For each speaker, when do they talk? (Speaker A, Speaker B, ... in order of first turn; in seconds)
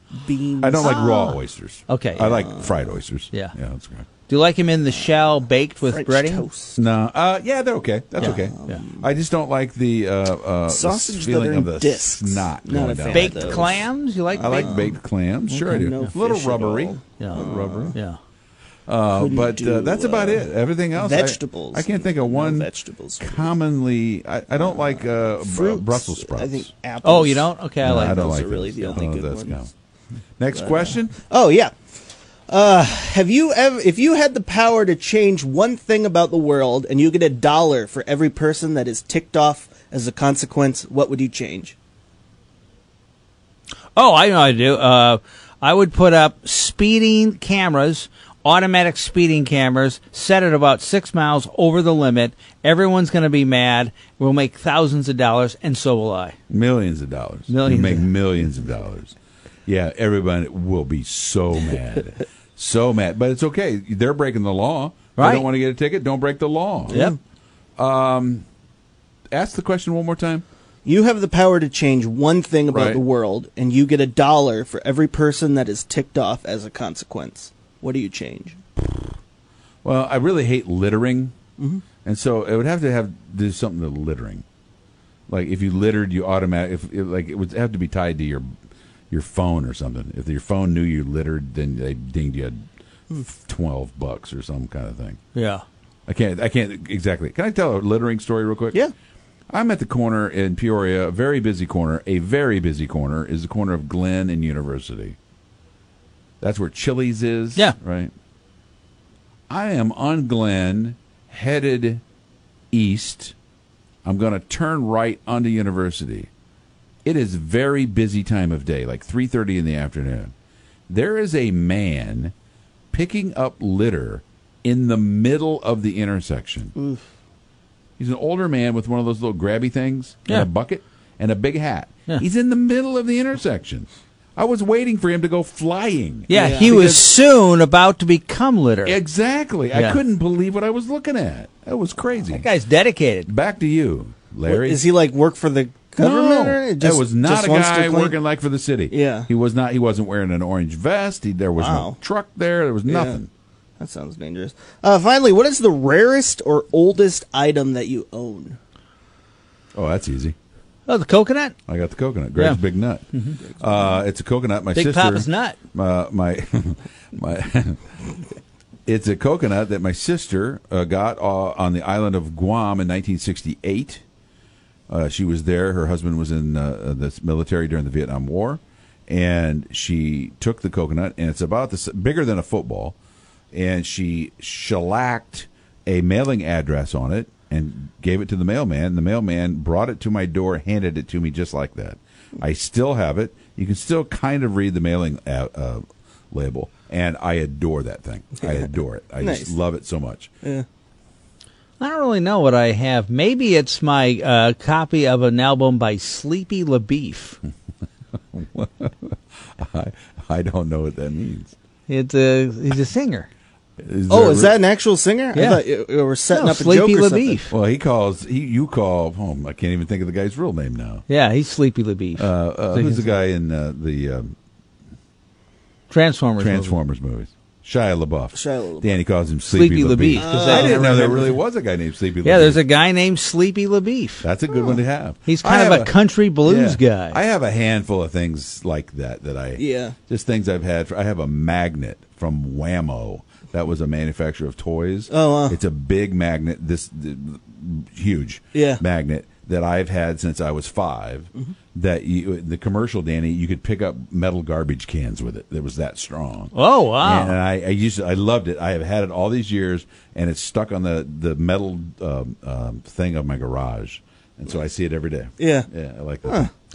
Speaker A: 0.2-1.4, 2.2-3.0, 4.9-5.3, 5.8-6.8, 8.2-9.1, 10.7-14.9, 15.7-18.0, 19.1-23.5, 24.5-29.6, 30.5-31.7, 32.5-41.8, 66.9-67.2, 70.8-78.6, 81.6-81.8, 126.8-127.0, 136.3-137.1, 144.5-148.2, 148.9-149.3, 151.6-152.0, 152.9-153.2, 153.8-158.6, 198.4-198.7, 199.2-199.6, 214.1-217.4, 228.3-229.0, 230.2-231.4, 234.5-234.8, 239.6-240.0, 245.1-245.6, 248.5-248.8, 265.4-265.7
Speaker B: 0.6-4.1, 6.8-18.0, 18.9-26.7, 27.8-29.7, 30.4-31.2, 56.5-59.1, 59.7-67.0, 67.8-68.5, 69.3-70.5, 72.7-73.0, 79.8-81.3, 82.0-84.4, 85.3-88.5, 89.1-95.2, 96.1-98.8, 99.5-105.2, 106.4-108.1, 109.5-112.0, 112.7-113.3, 114.0-116.3, 117.0-120.3, 120.9-122.3, 122.9-126.7, 128.0-136.3, 138.8-142.5, 143.3-144.8, 146.0-153.3, 159.8-160.4, 161.7-167.9, 168.9-174.0, 174.9-183.0, 183.5-200.3, 208.3-211.5, 213.8-214.6, 217.5-221.1, 222.2-224.3, 226.4-232.6, 234.2-235.9, 236.4-266.5
Speaker C: 0.8-1.4, 1.9-2.5, 4.3-6.5, 8.2-8.8, 13.1-14.9, 15.5-16.1, 27.0-28.3, 44.0-56.4, 57.5-58.1, 65.2-65.5, 66.9-67.2, 95.3-95.6, 136.3-139.0, 139.7-140.0, 142.3-143.3, 160.9-161.6, 164.7-165.6, 201.8-207.4, 211.9-213.3, 215.3-215.6, 216.3-217.6, 221.1-223.2, 225.9-226.8, 229.5-231.3, 232.2-234.3, 235.3-237.2, 256.5-257.4